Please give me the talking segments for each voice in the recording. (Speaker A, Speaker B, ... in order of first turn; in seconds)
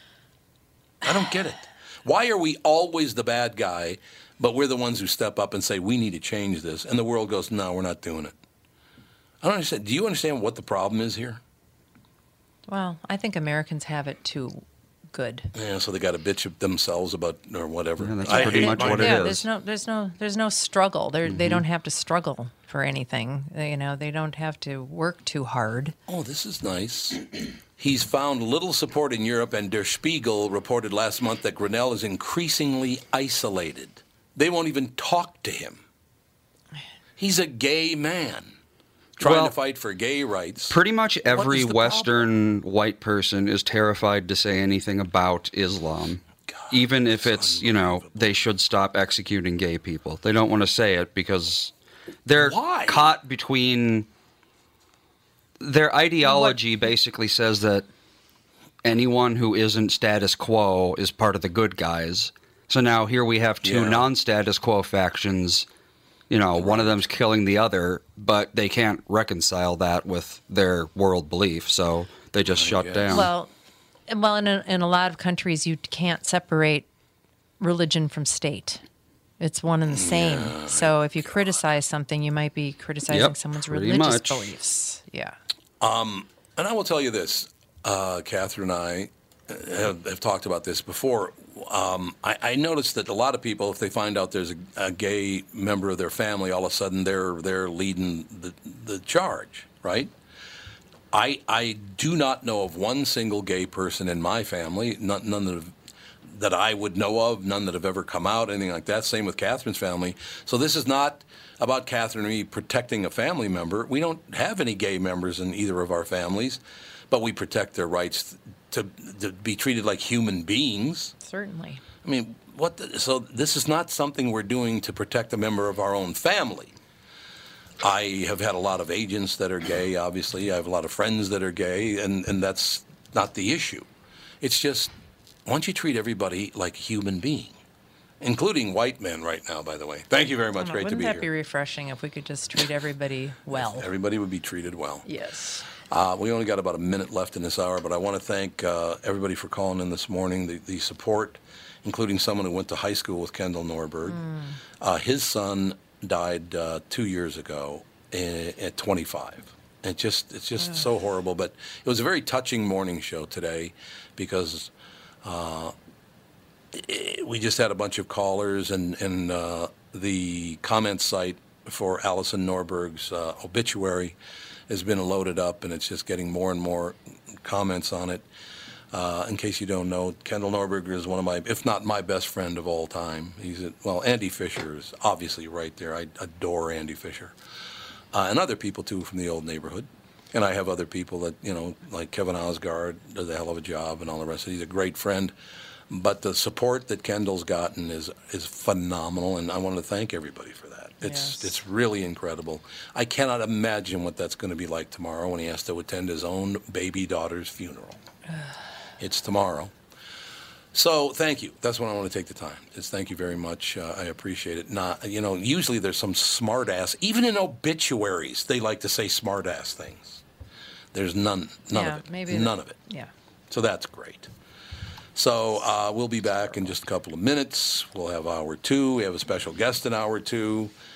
Speaker A: 1.0-8.3, 9.4-11.4, 15.6-19.3, 26.1-35.8, 37.2-38.5, 39.2-40.8, 46.5-48.4, 52.4-53.1, 63.6-64.1, 66.6-66.9, 72.5-73.3, 79.9-81.5, 85.8-100.1, 101.1-105.7, 106.2-121.1, 122.0-126.7, 127.8-133.9, 134.4-134.9, 135.5-137.6, 138.2-141.3, 143.5-145.1, 145.8-154.2, 154.8-164.7, 165.2-165.7, 166.7-174.2, 174.7-178.3, 178.9-187.3, 188.1-195.3, 195.9-208.0, 209.0-209.7, 210.7-220.2, 220.9-222.8, 223.5-224.3, 225.1-230.7
Speaker B: 12.7-15.5, 18.2-26.0, 41.3-42.3, 56.2-56.6, 73.1-73.5, 74.1-76.9, 77.6-78.8, 79.4-85.4, 121.2-121.8, 140.6-143.9, 145.1-145.7, 154.1-154.6, 201.0-201.5, 221.7-223.1
Speaker C: 18.0-19.5, 21.2-21.6, 39.2-39.6, 40.7-51.7, 52.3-54.1, 55.6-57.9, 58.8-65.7, 66.3-73.3, 83.1-84.5